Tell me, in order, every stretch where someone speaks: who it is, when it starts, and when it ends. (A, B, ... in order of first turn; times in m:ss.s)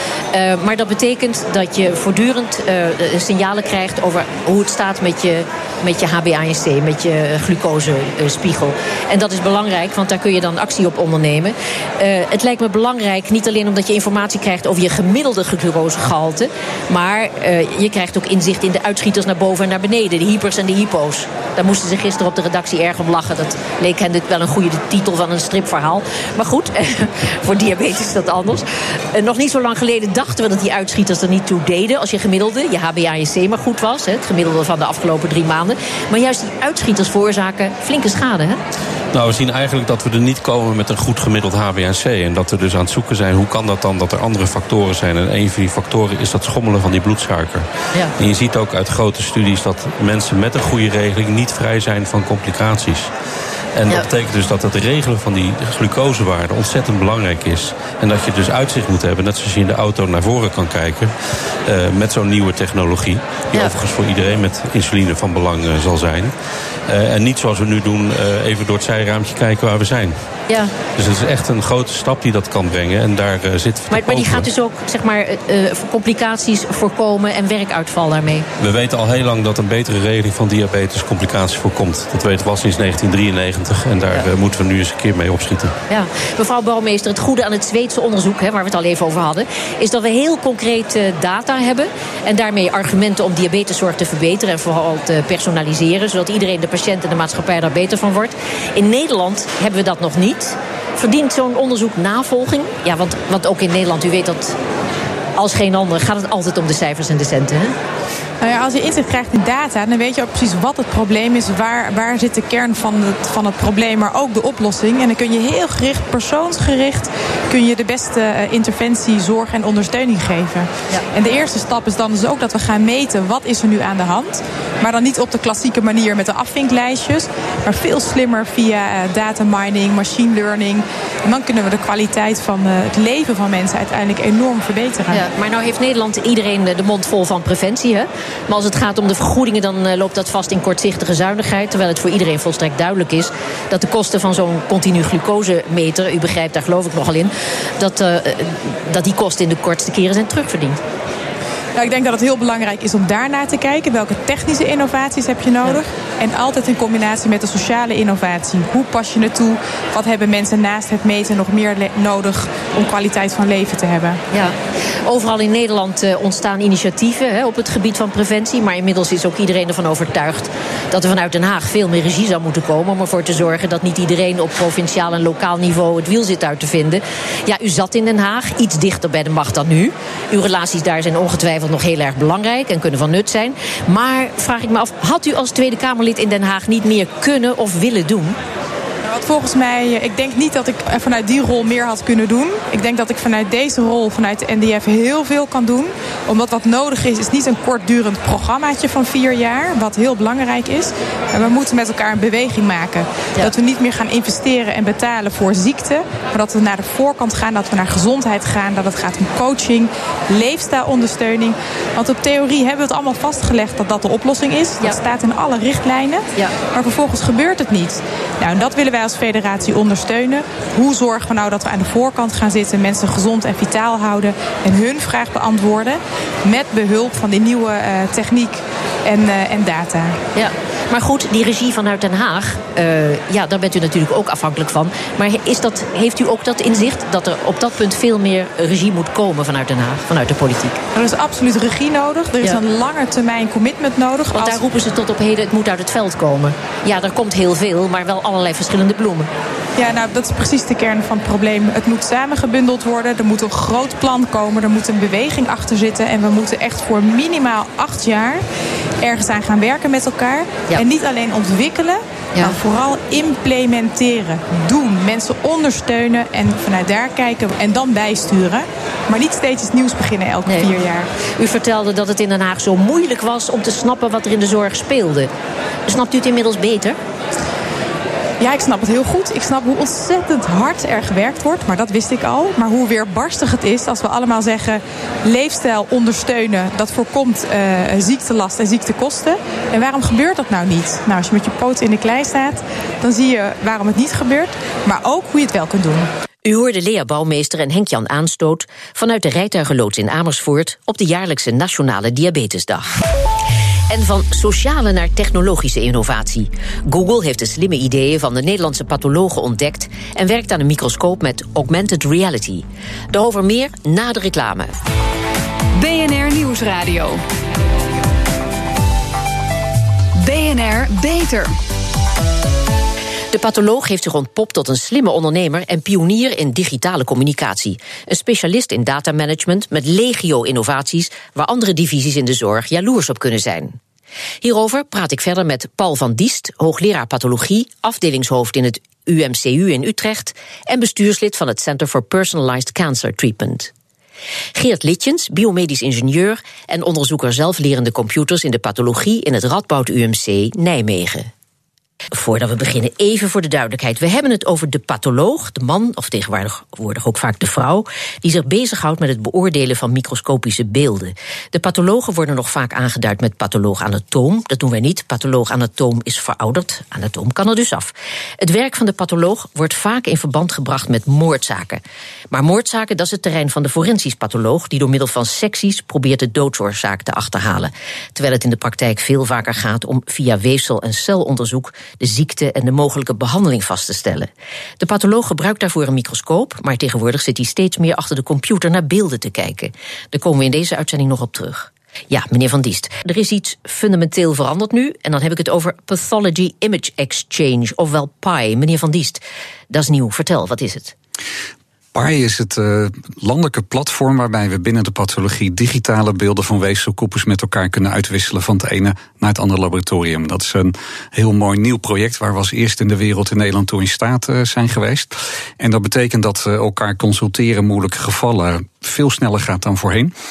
0:00.3-0:38.6 A
0:39.1-0:53.1 B
0:53.8-1:01.1 B
1:01.6-1:06.3 B
1:06.9-1:10.2 B
1:10.5-1:10.7 A
1:11.0-1:14.5 B
1:13.9-1:18.4 A
1:18.6-1:25.7 B
1:25.9-1:44.6 A
1:45.4-1:47.8 A
1:48.4-2:15.2 C
2:15.1-2:30.8 A
2:31.8-2:44.2 C
2:44.3-3:08.4 A
3:09.0-3:50.2 C
3:50.3-4:00.8 A
4:00.9-4:04.6 C
4:04.3-4:09.3 A
4:09.8-4:18.4 C
4:19.0-4:31.1 C
4:31.4-4:35.3 A
4:35.9-4:37.0 A
4:38.4-4:56.1 C
4:56.4-5:02.9 A
5:03.9-5:14.7 A
5:15.8-5:17.2 D
5:20.2-5:21.5 D
5:23.3-5:33.8 A
5:34.4-5:43.7 A
5:44.5-5:51.3 A
5:52.1-6:24.3 A
6:24.8-6:40.9 A
6:41.9-7:00.1 E